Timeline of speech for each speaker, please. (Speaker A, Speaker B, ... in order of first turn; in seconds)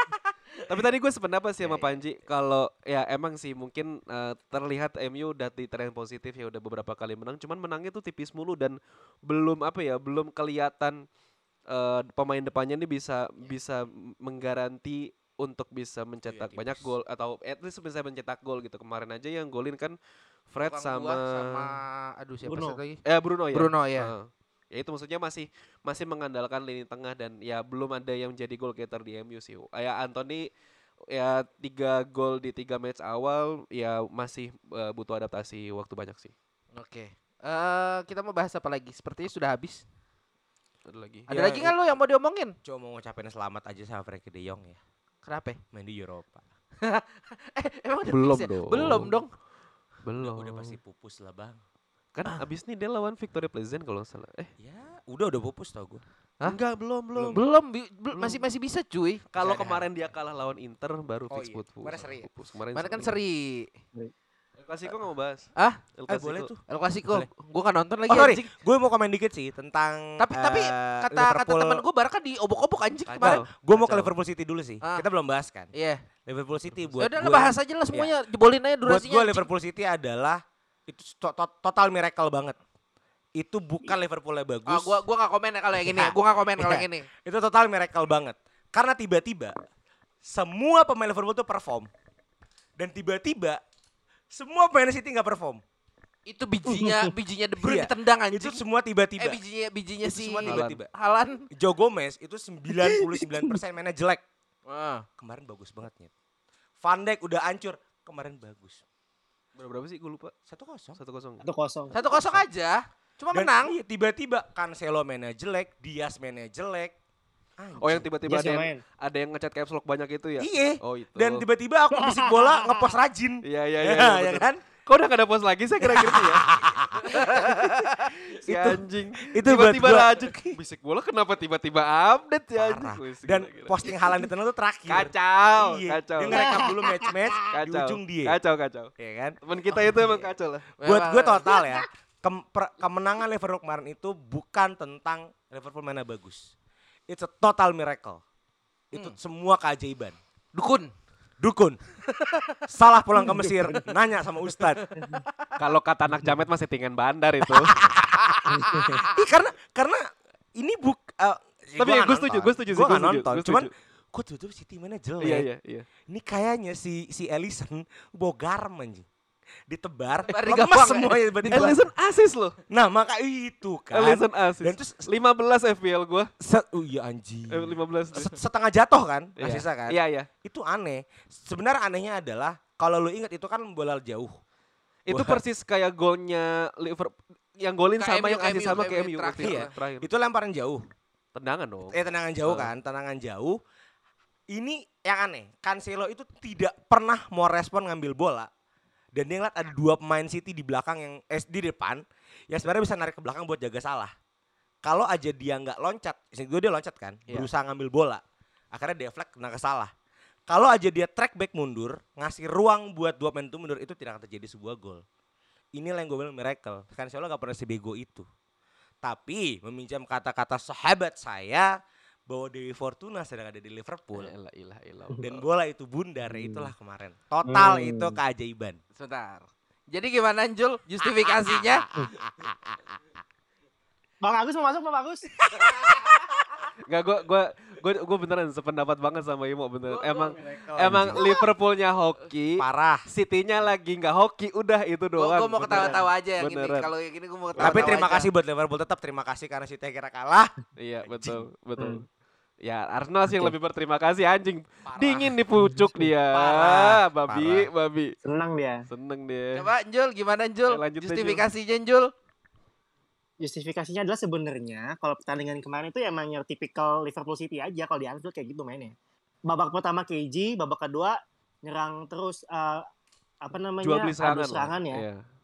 Speaker A: 0.7-11.0, 11.7-19.9, 20.5-21.8, 23.0-30.5, 31.1-36.3, 40.9-41.6, 48.1-49.1, 50.0-50.8, 52.1-54.5, 56.5-57.4, 58.1-58.4, 59.3-63.1, 64.6-66.5, 73.1-74.1, 100.5-100.8, 109.6-110.3, 111.0-111.4, 117.8-121.4, 123.4-133.9, 134.9-136.6, 137.5-138.9, 139.4-140.7, 155.6-157.8, 161.8-163.7, 165.2-165.9, 171.5-172.6, 173.9-176.3, 177.5-178.4, 179.4-180.3, 185.1-190.1, 191.3-192.7, 224.1-225.4, 236.9-246.9, 247.6-247.8, 250.8-252.0, 252.6-258.1, 258.9-259.7, 260.7-261.4, 273.8-275.2
Speaker B: 16.2-16.9, 41.3-41.7, 42.6-44.8, 45.7-46.4, 50.2-51.6, 54.6-56.0, 59.3-59.9, 61.3-62.3, 66.1-66.6, 68.1-71.8, 73.2-75.7, 76.3-78.1, 78.8-82.6, 83.4-85.0, 85.7-89.5, 90.2-91.9, 92.8-93.6, 94.3-95.6, 97.6-99.4, 100.0-100.9, 101.5-104.2, 105.2-106.1, 106.8-108.8, 110.5-111.0, 113.3-117.0, 117.6-118.0, 120.4-124.6, 125.8-127.7, 128.4-130.6, 132.6-138.4, 139.0-140.3, 140.8-146.5, 147.1-148.2, 148.9-150.2, 151.4-151.8, 152.7-154.9, 157.7-160.0, 160.6-165.5, 166.1-169.1, 169.7-171.8, 172.7-175.1, 176.4-184.3, 185.1-185.4, 189.4-190.8, 191.9-193.6, 194.5-198.5, 199.1-204.1, 204.8-209.9, 210.5-215.0, 215.8-218.2, 219.0-221.7, 222.3-224.3, 225.2-228.8, 231.0-232.8, 235.6-236.1, 240.5-241.3, 242.6-243.0, 247.6-251.4, 254.8-255.3, 256.3-257.7
Speaker C: 20.7-23.0, 23.5-24.1, 36.7-39.8, 41.3-42.5, 45.2-45.6, 46.8-49.3, 57.2-59.2, 62.7-63.7, 66.7-68.5, 70.2-73.4, 75.7-76.0, 77.0-79.5, 84.7-87.1, 96.3-98.6, 99.2-101.4, 104.7-105.0, 111.9-113.8, 140.8-141.6, 150.5-150.9, 152.1-152.4, 154.8-155.4, 158.4-159.1, 170.3-171.7, 188.0-189.7, 229.0-231.8, 239.9-240.4, 245.2-248.3, 259.5-262.1
Speaker D: 22.5-22.8, 96.7-97.1, 102.8-103.2, 111.4-112.4, 118.3-118.8, 122.0-122.8, 136.3-137.1, 226.3-226.7, 227.4-228.2, 234.2-235.4, 251.8-252.0, 258.2-258.8, 263.4-272.8, 273.4-275.0